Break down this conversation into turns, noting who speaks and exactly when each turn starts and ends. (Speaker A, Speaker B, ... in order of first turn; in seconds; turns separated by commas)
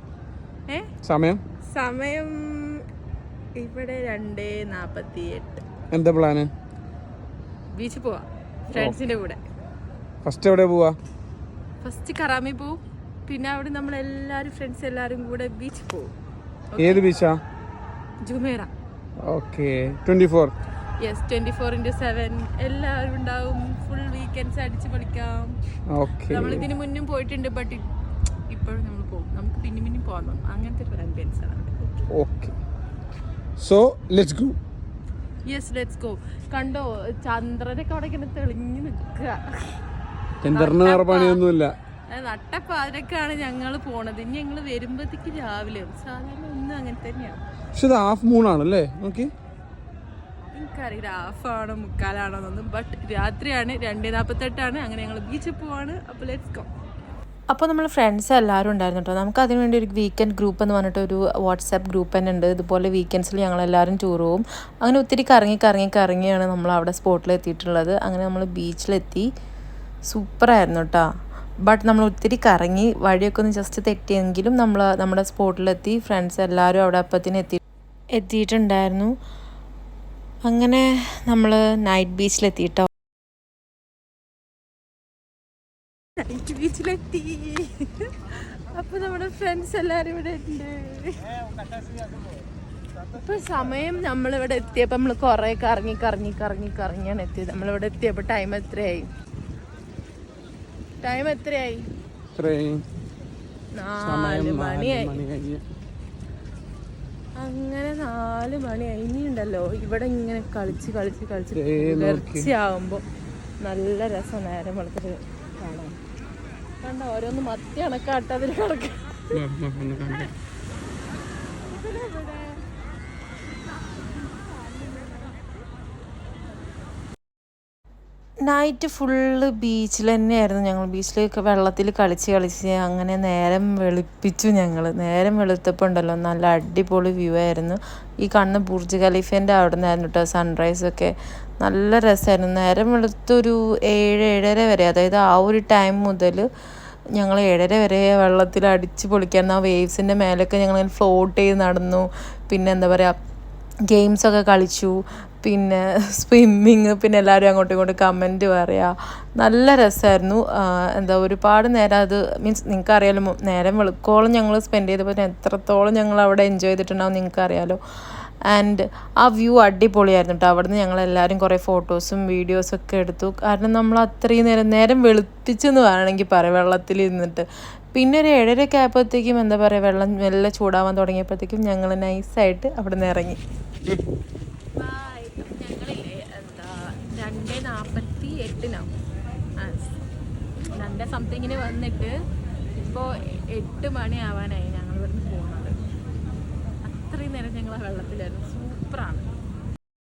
Speaker A: 1.0-1.4, Speaker B: 1.7-2.9, Speaker B: 3.6-5.6, Speaker A: 5.9-6.5, Speaker B: 7.7-9.4, Speaker A: 10.2-10.9, Speaker B: 11.8-16.1, Speaker B: 16.7-17.0, Speaker A: 16.8-17.4, Speaker B: 18.2-18.7, Speaker A: 19.2-20.5, Speaker B: 21.0-25.5, Speaker A: 25.9-26.7, Speaker B: 26.3-27.9, Speaker B: 28.5-32.0, Speaker A: 32.1-32.5, Speaker A: 33.6-34.5, Speaker B: 35.5-39.8, Speaker A: 40.4-41.7, Speaker B: 40.5-41.4, Speaker B: 42.1-47.4, Speaker A: 47.7-49.3, Speaker B: 50.5-56.7, Speaker C: 57.5-69.3, Speaker C: 70.1-71.1, Speaker C: 71.7-77.6, Speaker C: 78.2-79.1, Speaker C: 80.4-82.9, Speaker B: 86.2-91.3, Speaker B: 93.1-99.1, Speaker B: 101.0-101.9, Speaker A: 102.3-102.8, Speaker B: 103.7-105.2, Speaker A: 104.0-105.6, Speaker B: 107.4-113.0, Speaker A: 111.5-112.5, Speaker B: 113.6-116.0, Speaker B: 116.8-119.4, Speaker A: 119.3-120.3, Speaker B: 121.6-122.6, Speaker B: 124.1-125.4, Speaker C: 128.4-146.4, Speaker C: 147.2-153.2, Speaker C: 153.9-167.8, Speaker C: 168.5-183.4, Speaker B: 184.8-188.9, Speaker B: 189.6-189.9, Speaker B: 190.7-192.1, Speaker B: 192.8-195.8, Speaker B: 196.8-199.3